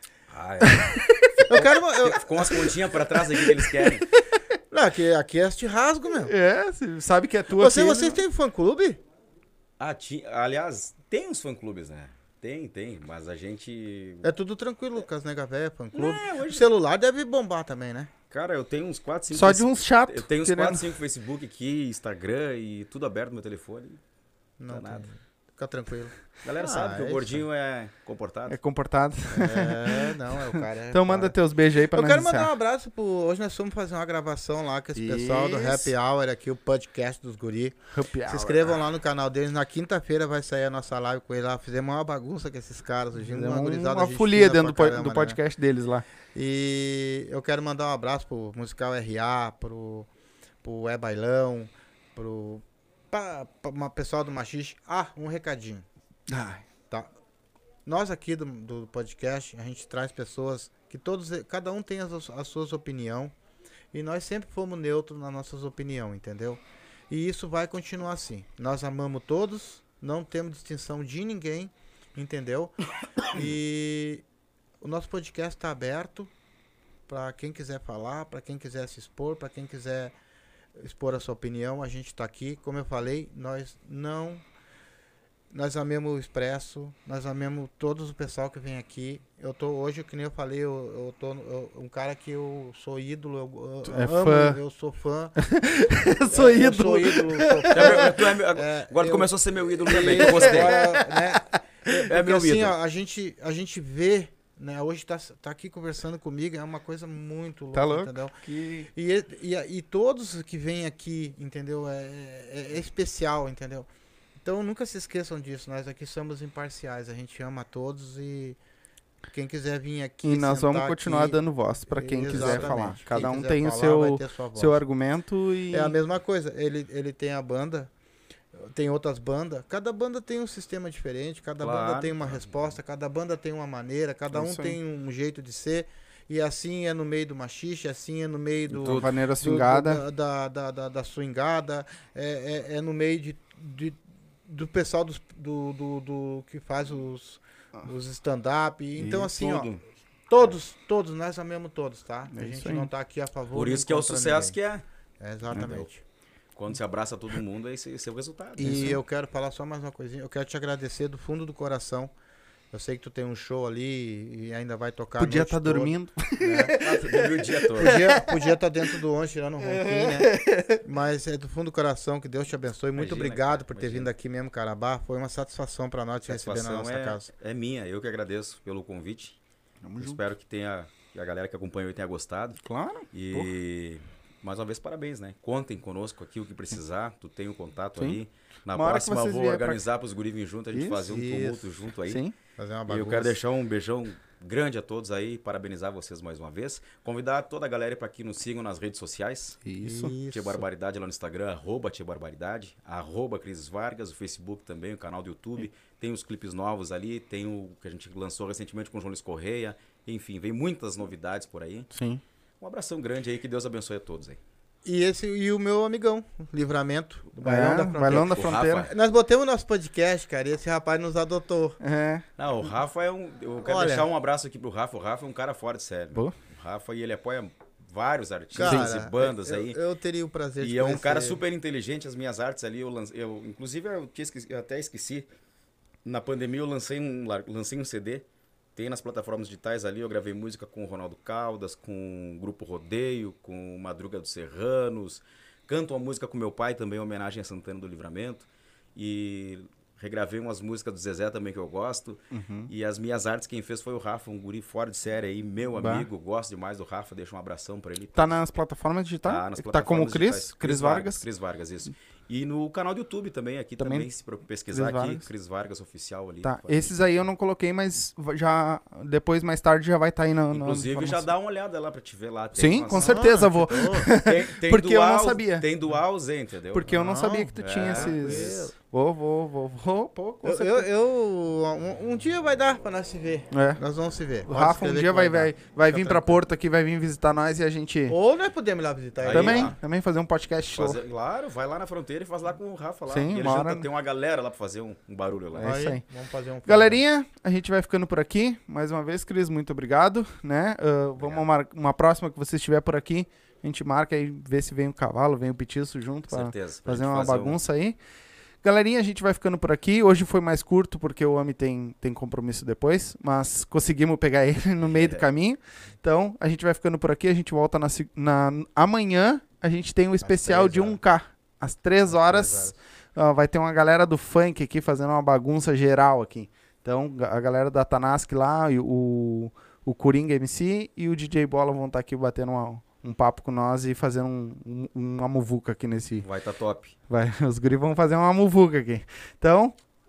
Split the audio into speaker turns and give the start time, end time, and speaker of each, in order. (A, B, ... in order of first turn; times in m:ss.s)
0:00.3-0:04.1 A
0:00.6-0:01.3 B
0:01.5-0:03.6 C
0:04.7-0:06.3 C
0:06.2-0:08.2 B
0:07.5-0:09.0 C
0:09.8-0:14.3 A
0:14.2-0:18.1 C
0:15.9-0:16.6 A
0:18.3-0:24.0 A
0:19.3-0:20.9 B
0:24.6-0:27.4 C
0:24.7-0:25.0 A
0:26.4-0:28.6 A
0:28.5-0:32.5 B
0:29.3-0:31.4 C
0:31.9-0:45.4 C
0:34.9-0:35.9 B
0:37.9-0:38.6 B
0:43.2-0:46.0 B
0:46.3-0:50.1 C
0:50.6-0:55.8 C
0:56.3-0:56.6 B
0:57.8-1:03.3 C
1:03.9-1:14.2 C
1:14.8-1:16.3 C
1:17.1-1:20.1 C
1:20.7-1:24.4 C
1:25.5-1:35.4 C
1:33.8-1:34.6 B
1:35.4-1:38.0 B
1:36.3-1:48.4 C
1:37.7-1:40.8 A
1:40.1-1:41.1 B
1:41.9-1:42.7 A
1:47.7-1:48.9 B
1:48.9-1:53.9 C
1:54.4-1:58.6 C
1:59.3-2:04.8 C
2:00.2-2:06.0 B
2:02.3-2:02.8 A
2:05.7-2:07.9 C
2:08.5-2:29.7 C
2:11.6-2:12.6 A
2:14.3-2:14.8 B
2:18.8-2:20.0 B
2:18.8-2:19.1 A
2:29.0-2:29.8 A
2:30.3-2:34.6 C
2:32.3-2:32.9 B
2:33.5-2:34.8 A
2:35.2-2:36.0 C
2:35.5-2:35.9 A
2:36.5-2:39.0 A
2:38.6-2:42.1 C
2:38.6-2:39.0 B
2:42.7-2:46.7 C
2:45.2-2:48.3 B
2:46.7-2:48.0 A
2:47.8-2:57.3 C
2:49.6-2:50.8 B
2:52.9-2:54.1 A
2:56.2-2:59.4 A
2:59.8-3:00.2 B
3:00.0-3:02.6 A
3:02.6-3:03.5 B
3:03.1-3:12.2 A
3:08.7-3:09.8 B
3:10.7-3:11.0 B
3:11.0-3:11.7 C
3:12.1-3:12.3 B
3:12.6-3:13.4 C
3:12.9-3:19.6 A
3:19.6-3:20.1 B
3:19.8-3:20.6 C
3:20.3-3:31.9 A
3:31.9-3:32.2 B
3:32.6-3:34.4 A
3:34.8-3:38.3 C
3:37.4-3:38.9 B
3:38.0-3:38.9 A
3:38.8-3:41.8 C
3:41.8-3:42.2 B
3:42.4-3:49.8 A
3:43.6-3:44.1 C
3:48.5-3:51.4 C
3:48.6-3:48.9 B
3:50.6-3:55.3 A
3:56.0-3:58.2 A
3:58.8-4:18.4 A
4:12.3-4:12.7 B
4:15.7-4:16.1 B
4:18.2-4:21.2 B
4:19.2-4:27.0 A
4:23.8-4:24.1 B
4:24.7-4:25.2 B
4:26.4-4:31.3 B
4:30.5-4:37.0 A
4:32.6-4:35.7 B
4:32.9-4:34.1 C
4:36.7-4:40.8 B
4:36.9-4:38.7 C
4:37.6-4:38.7 A
4:40.4-4:46.4 C
4:43.5-4:43.8 B
4:44.4-4:48.2 B
4:48.1-4:49.7 C
4:49.2-4:49.8 A
4:49.3-4:51.0 B
4:50.7-4:55.8 A
4:53.1-4:53.9 B
4:55.5-4:56.0 B
4:55.6-4:57.0 C
4:56.6-5:08.0 B
5:01.2-5:01.5 A
5:06.3-5:07.6 A
5:08.6-5:36.2 B
5:14.8-5:15.2 A
5:20.2-5:21.0 C
5:22.1-5:22.7 C
5:36.2-5:36.9 A
5:37.1-5:39.7 B